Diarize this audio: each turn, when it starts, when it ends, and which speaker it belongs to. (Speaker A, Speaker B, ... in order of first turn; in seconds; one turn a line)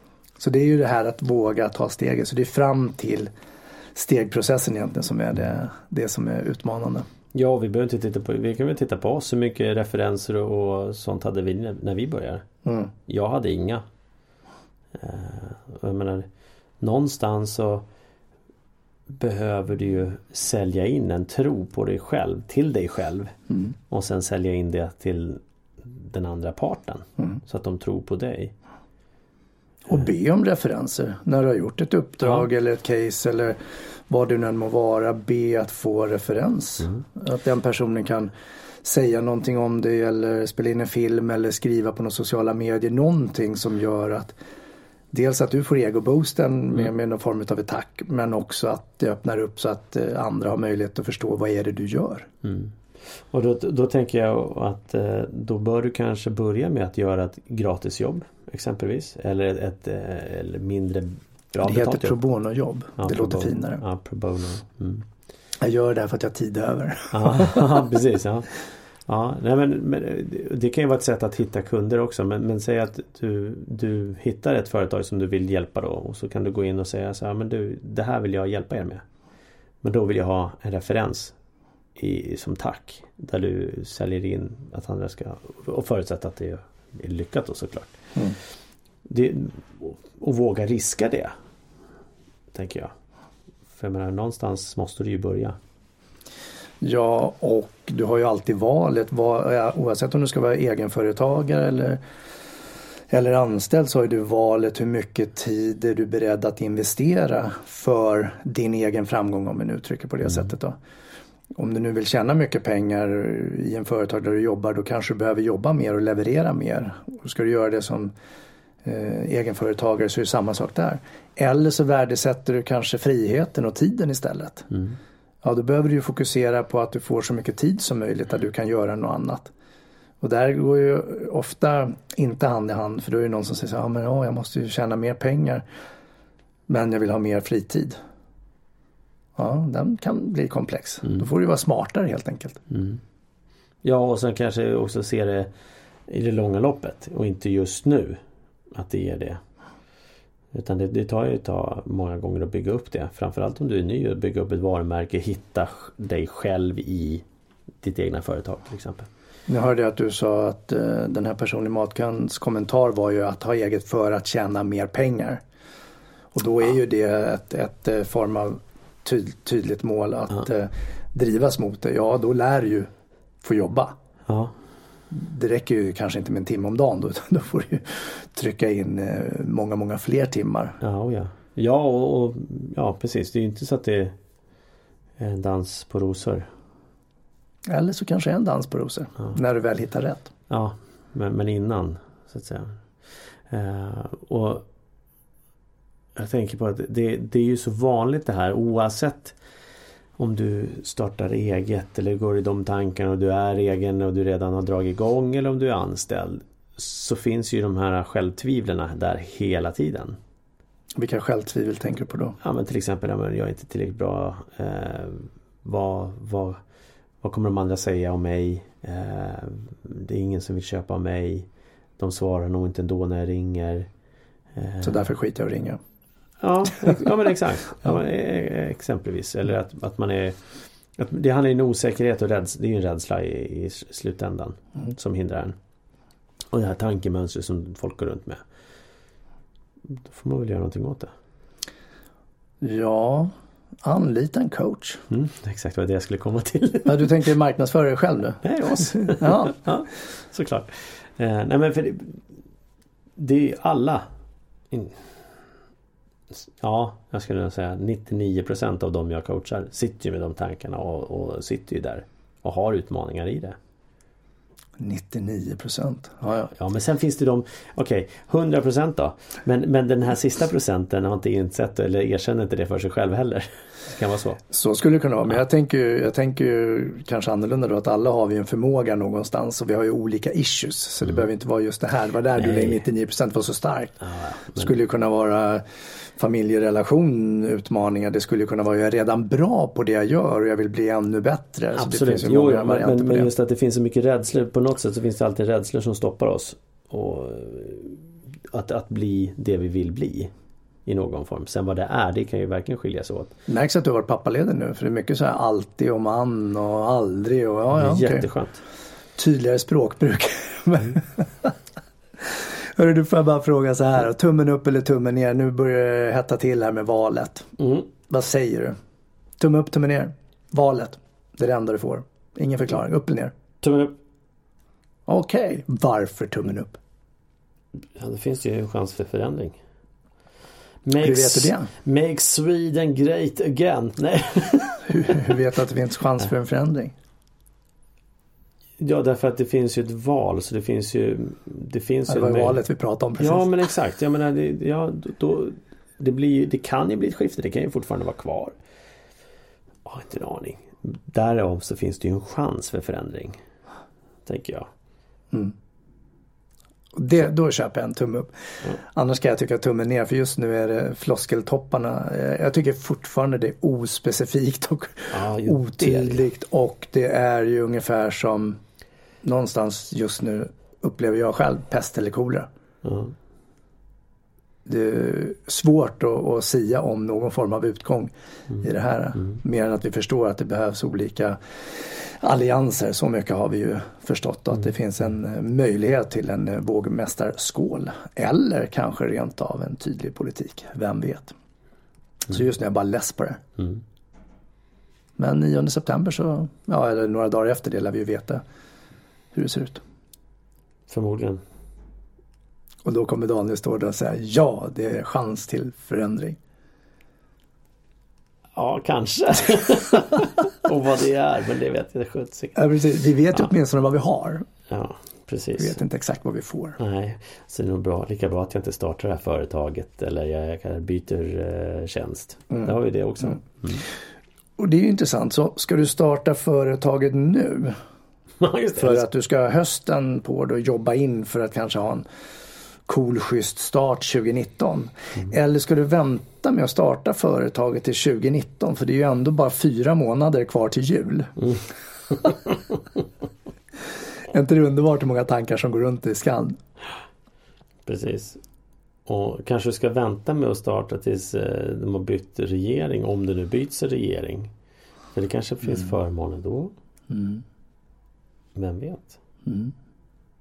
Speaker A: 0.4-3.3
Speaker A: 3.9-7.0
Speaker B: 7.3-12.4
Speaker A: 12.6-12.9
Speaker B: 13.1-13.8
Speaker B: 14.9-16.3
Speaker B: 16.8-17.8
Speaker B: 19.1-23.3
Speaker B: 23.9-28.5
Speaker A: 29.9-33.6
Speaker A: 34.1-38.3
Speaker A: 38.8-44.4
Speaker A: 45.1-52.3
Speaker B: 52.4-52.7
Speaker B: 53.3-62.1
Speaker A: 61.6-63.8
Speaker B: 63.0-65.0
Speaker A: 65.6-67.8
Speaker B: 67.1-79.0
Speaker B: 79.8-81.3
Speaker B: 82.0-88.0
Speaker B: 89.1-91.3
Speaker B: 92.5-92.9
Speaker B: 93.7-95.6
Speaker A: 96.8-102.0
Speaker A: 103.1-110.8
Speaker A: 111.5-118.1
Speaker A: 118.8-124.7
Speaker A: 125.4-129.5
Speaker A: 130.2-135.6
Speaker A: 136.7-137.9
Speaker A: 139.3-142.6
Speaker B: 142.7-143.0
Speaker B: 143.8-145.5
Speaker B: 146.1-148.2
Speaker B: 148.7-149.4
Speaker B: 150.5-157.2
Speaker B: 157.8-159.1
Speaker A: 159.5-165.4
Speaker A: 166.3-172.9
Speaker A: 173.4-173.9
Speaker B: 174.3-174.5
Speaker A: 175.1-180.8
Speaker B: 180.8-184.1
Speaker B: 185.2-186.5
Speaker A: 187.7-190.3
Speaker B: 190.5-192.8
Speaker B: 193.5-194.7
Speaker B: 196.1-199.4
Speaker B: 200.2-210.2
Speaker A: 211.0-212.4
Speaker B: 212.4-216.6
Speaker B: 217.2-221.5
Speaker B: 222.0-223.9
Speaker B: 224.5-225.0
Speaker A: 224.8-225.8
Speaker B: 226.4-235.6
Speaker B: 236.5-238.4
Speaker B: 239.9-241.1
Speaker A: 242.6-243.3
Speaker A: 243.8-245.0
Speaker B: 245.1-247.1
Speaker A: 246.8-249.6
Speaker B: 248.4-252.2
Speaker B: 253.2-254.0
Speaker B: 254.7-255.1
Speaker B: 256.6-263.6
Speaker A: 264.8-266.5
Speaker B: 266.5-274.4
Speaker A: 274.5-284.0
Speaker B: 282.4-282.8
Speaker B: 284.0-284.7
Speaker A: 284.5-293.3
Speaker B: 291.7-300.3
Speaker B: 300.9-303.3
Speaker A: 303.5-308.2
Speaker B: 307.7-308.6
Speaker A: 309.1-311.5
Speaker A: 312.2-317.5
Speaker B: 317.6-317.9
Speaker A: 318.1-318.7
Speaker A: 319.4-323.3
Speaker B: 323.6-323.9
Speaker A: 325.1-326.8
Speaker B: 327.9-329.6
Speaker B: 330.8-335.3
Speaker A: 331.0-331.7
Speaker A: 334.9-336.9
Speaker B: 338.8-342.6
Speaker A: 342.1-343.5
Speaker B: 343.2-348.5
Speaker B: 349.8-353.4
Speaker B: 354.2-354.7
Speaker A: 356.9-368.6
Speaker B: 365.1-366.2
Speaker A: 369.2-372.5
Speaker B: 372.8-373.1
Speaker A: 374.6-391.3
Speaker A: 392.3-393.4
Speaker A: 395.2-398.4
Speaker A: 399.3-399.8
Speaker B: 400.9-401.4
Speaker A: 402.8-406.4
Speaker B: 408.6-412.6
Speaker A: 412.5-414.4
Speaker B: 414.7-415.8
Speaker A: 415.6-416.8
Speaker B: 416.8-423.8
Speaker A: 422.5-423.3
Speaker A: 424.6-427.8
Speaker B: 428.4-429.0
Speaker A: 428.8-432.0
Speaker A: 432.9-441.4
Speaker B: 442.1-442.5
Speaker A: 444.3-446.6
Speaker B: 447.8-448.4
Speaker B: 449.1-454.5
Speaker B: 455.1-456.7
Speaker A: 457.1-457.4
Speaker B: 458.5-459.2
Speaker A: 459.4-459.7